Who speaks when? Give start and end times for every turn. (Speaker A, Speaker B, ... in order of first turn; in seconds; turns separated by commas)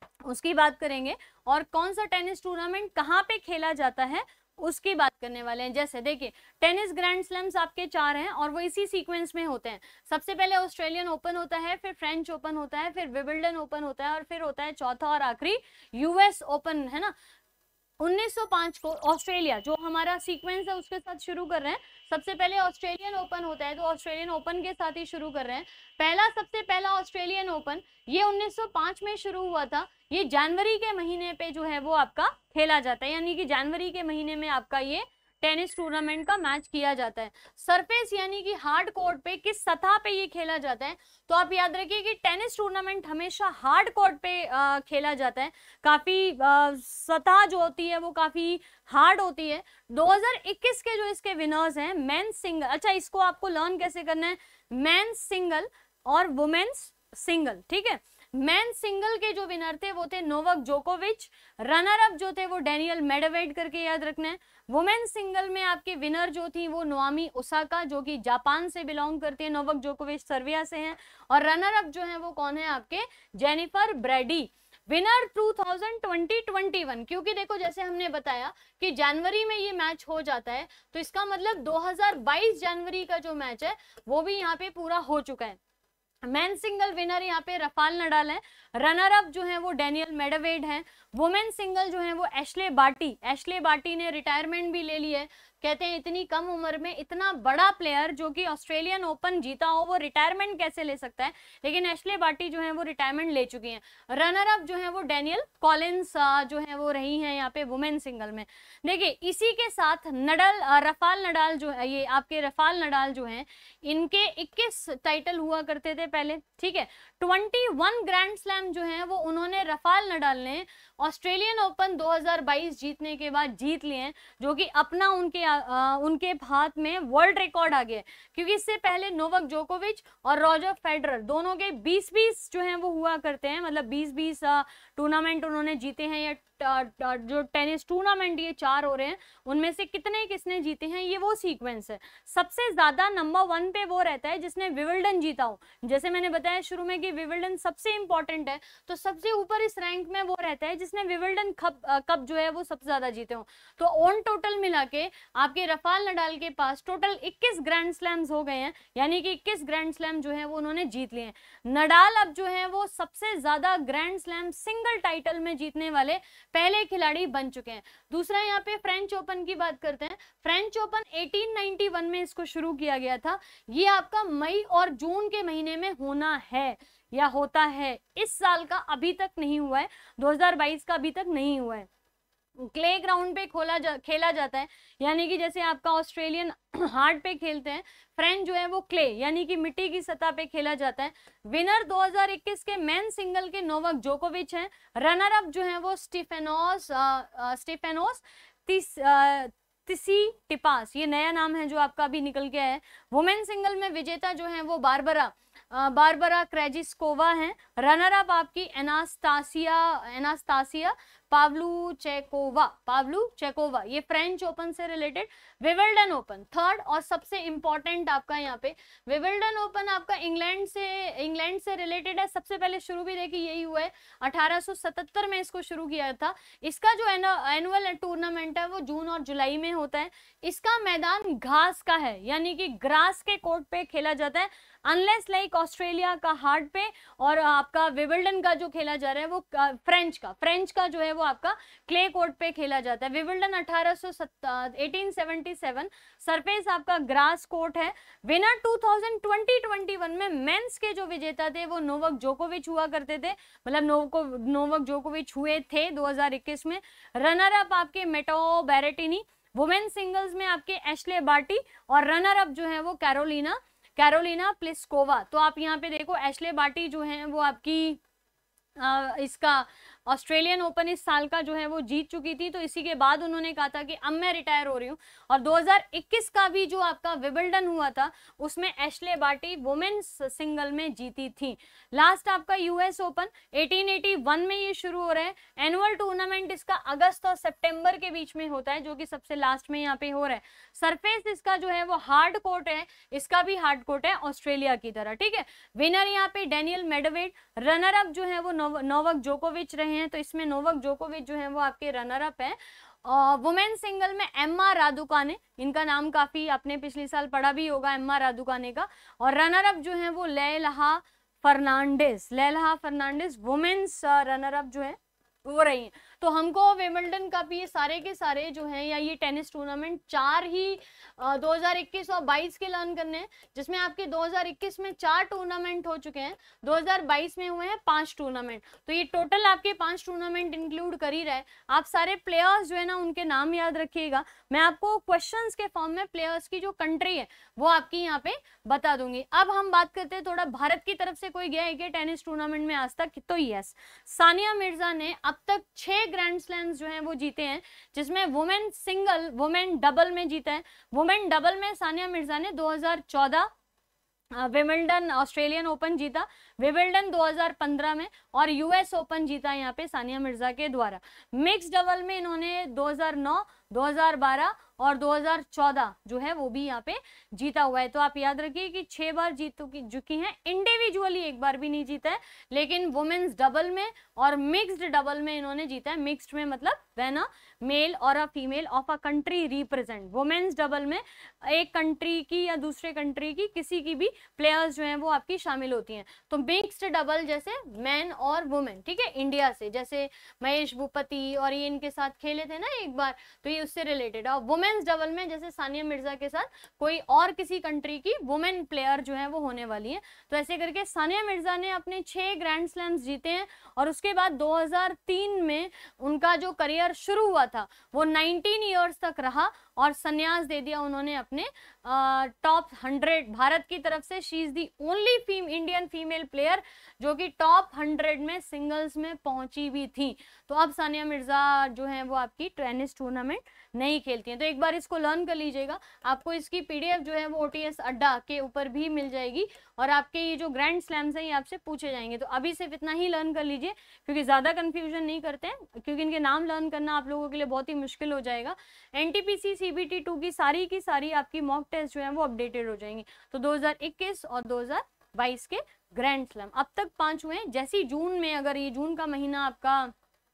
Speaker A: 0.2-17.1, Speaker A: 18.0-85.6, Speaker A: 86.2-181.9, Speaker A: 182.6-268.0, Speaker A: 268.8-353.5, Speaker A: 354.3-449.9